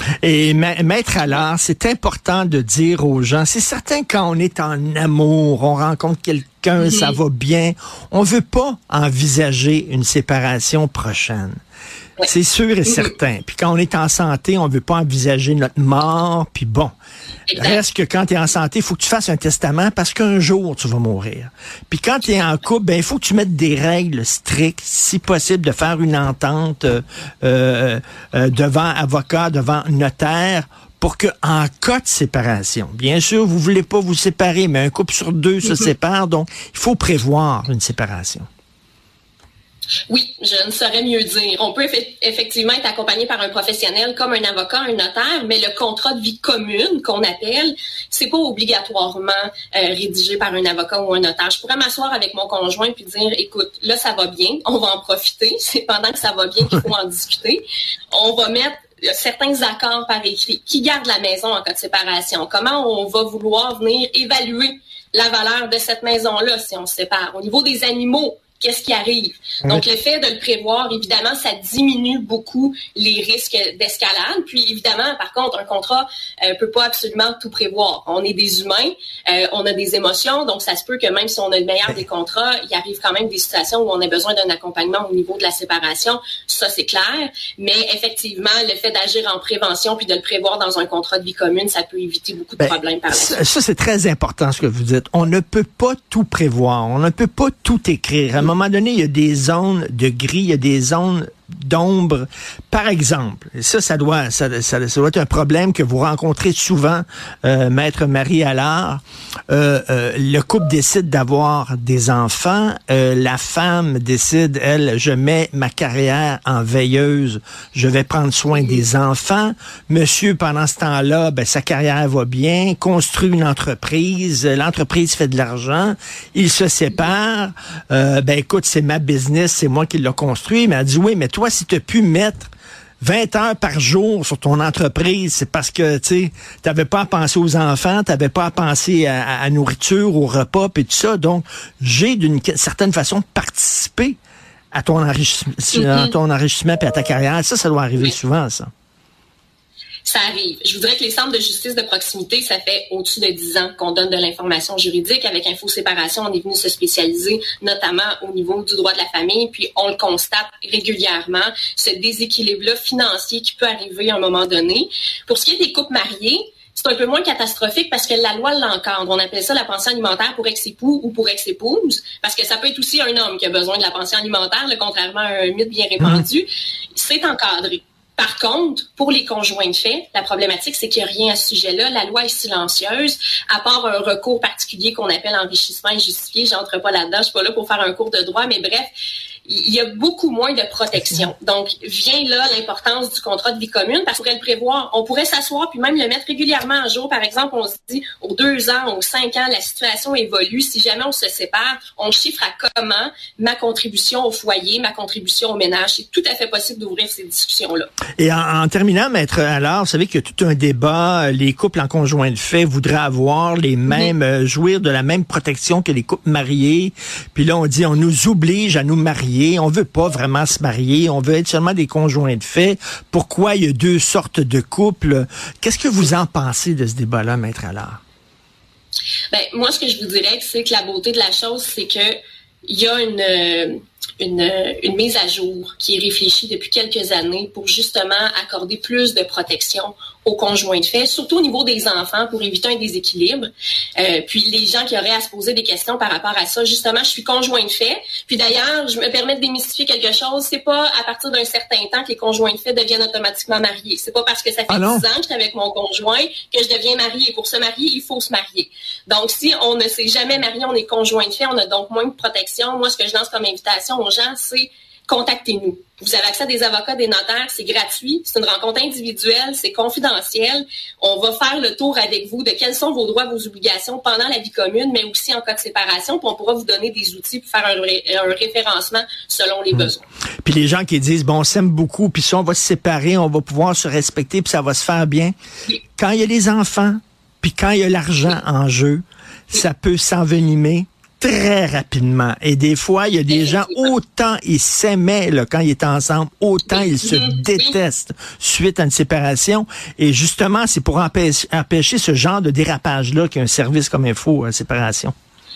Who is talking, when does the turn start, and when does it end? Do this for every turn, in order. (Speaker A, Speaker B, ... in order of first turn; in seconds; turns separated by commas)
Speaker A: 0.2-11.6, Speaker B: 6.8-7.2, Speaker A: 12.2-16.9, Speaker B: 12.9-13.1, Speaker B: 17.5-17.8, Speaker A: 17.5-38.5, Speaker B: 40.1-93.4, Speaker A: 92.6-144.2, Speaker B: 118.5-118.8, Speaker A: 144.7-148.7, Speaker B: 145.7-146.1, Speaker B: 150.0-188.9, Speaker A: 176.0-176.2, Speaker B: 189.4-207.9, Speaker A: 208.2-228.0, Speaker B: 213.9-214.1, Speaker B: 229.3-232.1, Speaker B: 232.7-280.0, Speaker A: 254.7-255.1, Speaker A: 280.4-285.3, Speaker A: 286.0-305.1, Speaker B: 293.3-293.9, Speaker B: 296.7-297.7